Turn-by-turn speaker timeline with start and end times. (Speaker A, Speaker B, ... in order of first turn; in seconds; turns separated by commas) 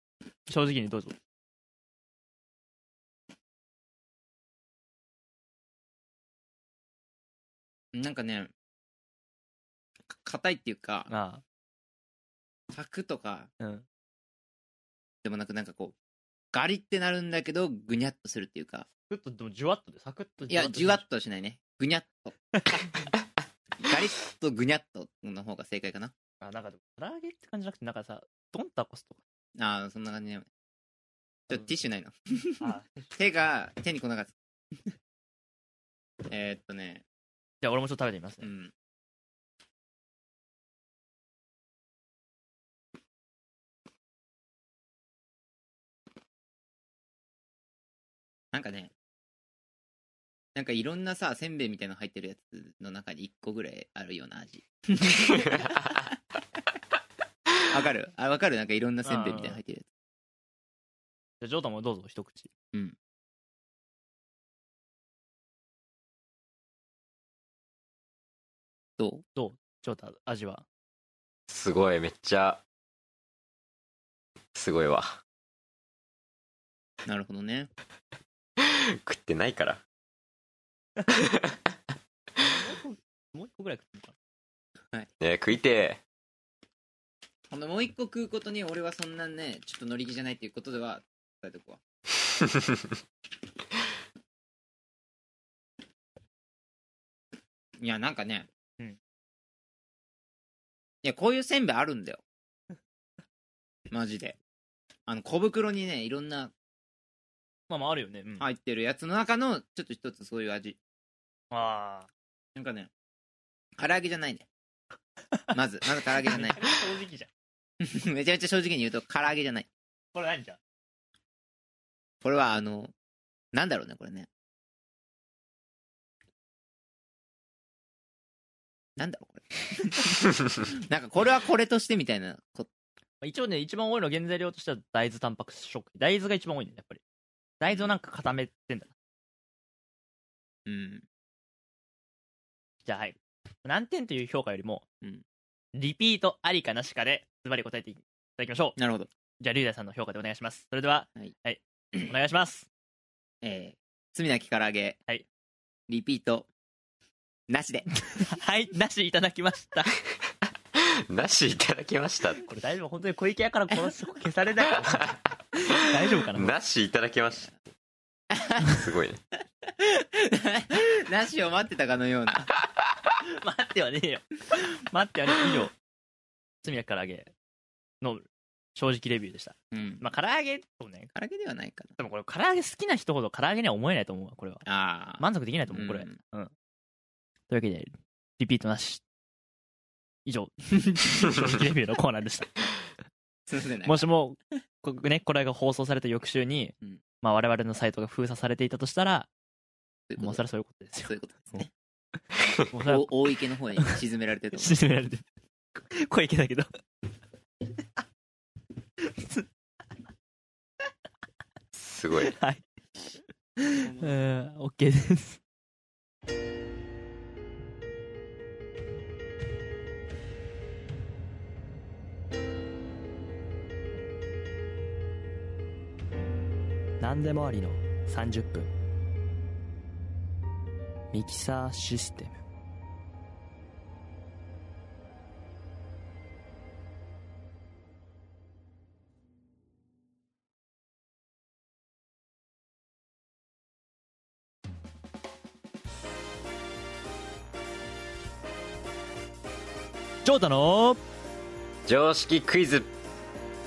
Speaker A: 0.5-1.1, Speaker B: 7.9-8.5, Speaker B: 10.1-11.1, Speaker A: 11.1-11.4, Speaker B: 12.7-13.5, Speaker A: 13.6-13.8, Speaker B: 15.2-15.9, Speaker B: 16.5-18.9, Speaker A: 19.1-21.0, Speaker B: 20.5-22.5, Speaker B: 23.8-26.1, Speaker A: 26.4-29.2, Speaker B: 29.6-30.5, Speaker B: 31.5-34.3, Speaker A: 32.6-32.9, Speaker B: 36.3-37.0, Speaker A: 37.6-38.5, Speaker B: 38.4-38.7, Speaker B: 48.5-48.9, Speaker B: 50.5-56.0, Speaker B: 57.6-59.9, Speaker A: 59.0-59.6, Speaker A: 61.4-62.5, Speaker B: 69.0-69.2, Speaker A: 69.3-70.6, Speaker C: 71.5-72.6, Speaker C: 74.5-75.2, Speaker B: 77.0-77.7, Speaker C: 78.6-79.8, Speaker C: 81.1-81.6, Speaker A: 82.4-84.1, Speaker C: 85.2-86.0, Speaker B: 87.5-91.8, Speaker C: 92.5-92.8, Speaker B: 97.8-98.5, Speaker B: 101.0-102.2, Speaker B: 103.9-104.4, Speaker B: 105.1-106.5, Speaker A: 107.7-108.5, Speaker B: 108.4-110.8, Speaker A: 111.5-112.1, Speaker B: 112.5-112.9, Speaker B: 113.8-114.5, Speaker B: 115.5-116.7, Speaker A: 116.2-117.3, Speaker B: 117.8-119.7, Speaker A: 120.1-120.6, Speaker B: 122.2-122.9, Speaker B: 123.5-124.3, Speaker B: 129.0-132.7, Speaker A: 133.2-137.0, Speaker A: 137.6-138.9, Speaker B: 140.7-141.0, Speaker A: 142.8-144.8, Speaker A: 145.7-148.8, Speaker B: 148.8-149.1, Speaker A: 149.4-152.7, Speaker B: 153.4-155.0, Speaker B: 155.9-156.5, Speaker B: 157.5-157.9, Speaker A: 158.2-159.9, Speaker C: 160.7-162.4, Speaker A: 162.4-166.5, Speaker C: 166.3-167.5, Speaker B: 168.3-168.7, Speaker C: 168.6-169.2, Speaker B: 169.7-172.5, Speaker A: 173.2-175.7, Speaker A: 176.6-177.3, Speaker A: 178.0-181.1, Speaker B: 179.7-180.0, Speaker B: 181.2-181.9, Speaker A: 182.0-184.6, Speaker B: 184.7-186.2, Speaker A: 185.2-186.5, Speaker A: 187.5-189.0, Speaker A: 190.2-192.6, Speaker B: 193.5-194.1, Speaker A: 193.8-199.3, Speaker B: 200.1-200.4, Speaker A: 200.2-201.6, Speaker B: 201.1-201.7, Speaker A: 202.7-203.9, Speaker B: 202.7-204.8, Speaker A: 204.5-205.2, Speaker A: 205.9-206.7, Speaker A: 209.0-209.4, Speaker C: 211.7-212.3, Speaker A: 212.2-212.6, Speaker A: 213.6-215.4, Speaker A: 227.0-228.7, Speaker A: 231.1-232.4, Speaker A: 250.2-251.0, Speaker C: 251.8-252.9